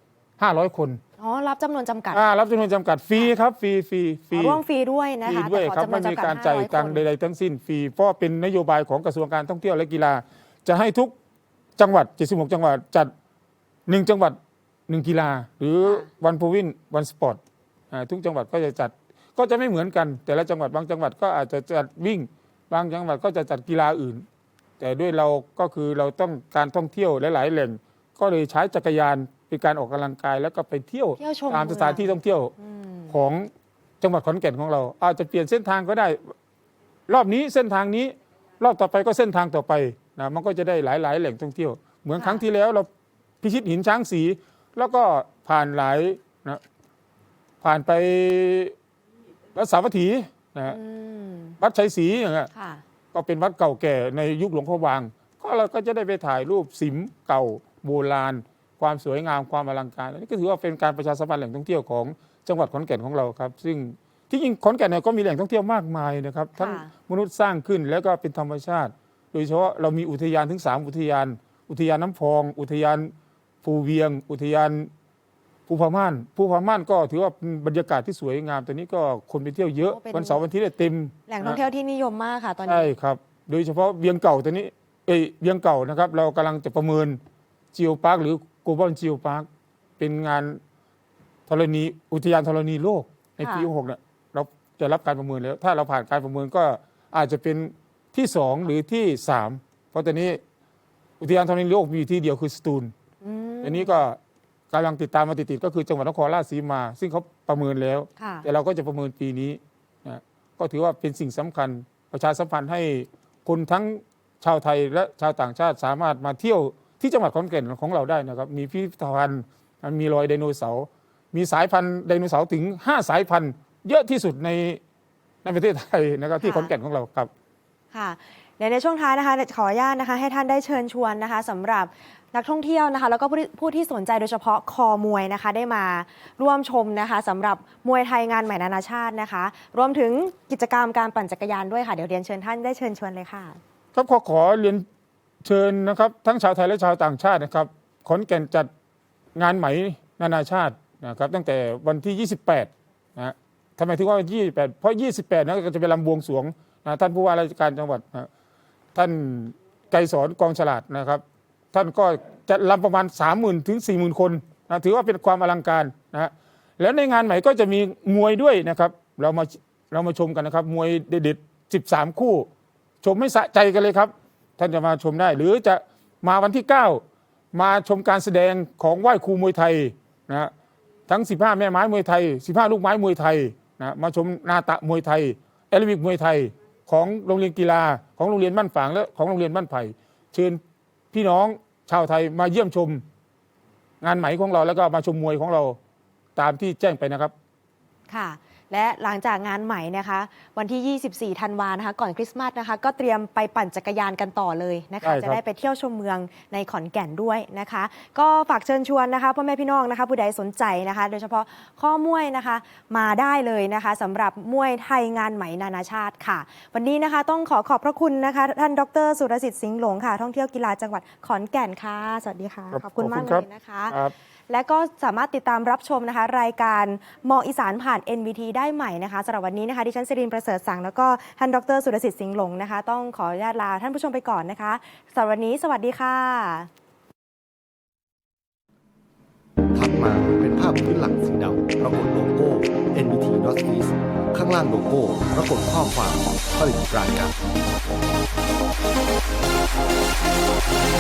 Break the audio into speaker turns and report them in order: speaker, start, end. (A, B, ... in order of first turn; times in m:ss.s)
0:00.4-0:01.0 A
0:01.2-0:02.2 B
0:02.1-0:04.6 A
0:04.3-0:07.0 B
0:05.2-0:11.1 A
0:11.8-0:13.1 A
0:13.9-0:14.4 A
0:14.9-0:17.4 A
0:17.9-0:24.2 A
0:24.8-0:32.5 A
0:31.2-0:33.2 B
0:33.1-0:33.5 A
0:34.0-0:36.2 A
0:37.1-0:42.9 A
0:42.2-0:42.4 B
0:43.4-0:46.6 A
0:47.6-0:48.7 A
0:49.6-0:50.8 A
0:50.7-0:51.6 B
0:51.6-0:52.5 A
0:52.5-0:52.8 B
0:53.1-1:13.1 A
1:06.6-1:06.9 B
1:13.6-1:14.9 A
1:15.7-1:21.6 A
1:19.8-1:20.4 B
1:21.3-1:22.9 B
1:22.7-1:27.2 A
1:27.7-1:29.5 A
1:30.0-1:30.6 A
1:31.5-1:40.4 A
1:33.4-1:33.7 B
1:41.2-1:42.9 A
1:43.2-1:44.0 B
1:43.6-1:44.2 A
1:44.7-2:04.8 A
1:48.2-1:48.5 B
2:05.4-2:07.3 A
2:06.4-2:06.7 B
2:07.9-2:23.6 B
2:23.9-2:24.9 A
2:25.4-2:28.7 A
2:29.4-2:38.3 A
2:39.0-2:52.5 A
2:53.0-3:00.5 A
3:01.1-3:10.6 A
3:11.1-3:13.0 A
3:14.0-3:15.8 A
3:16.4-3:17.3 A
3:18.1-3:44.0 B
3:25.0-3:25.4 A
3:42.7-3:44.1 A
3:44.5-3:56.7 B
3:59.7-4:07.4 C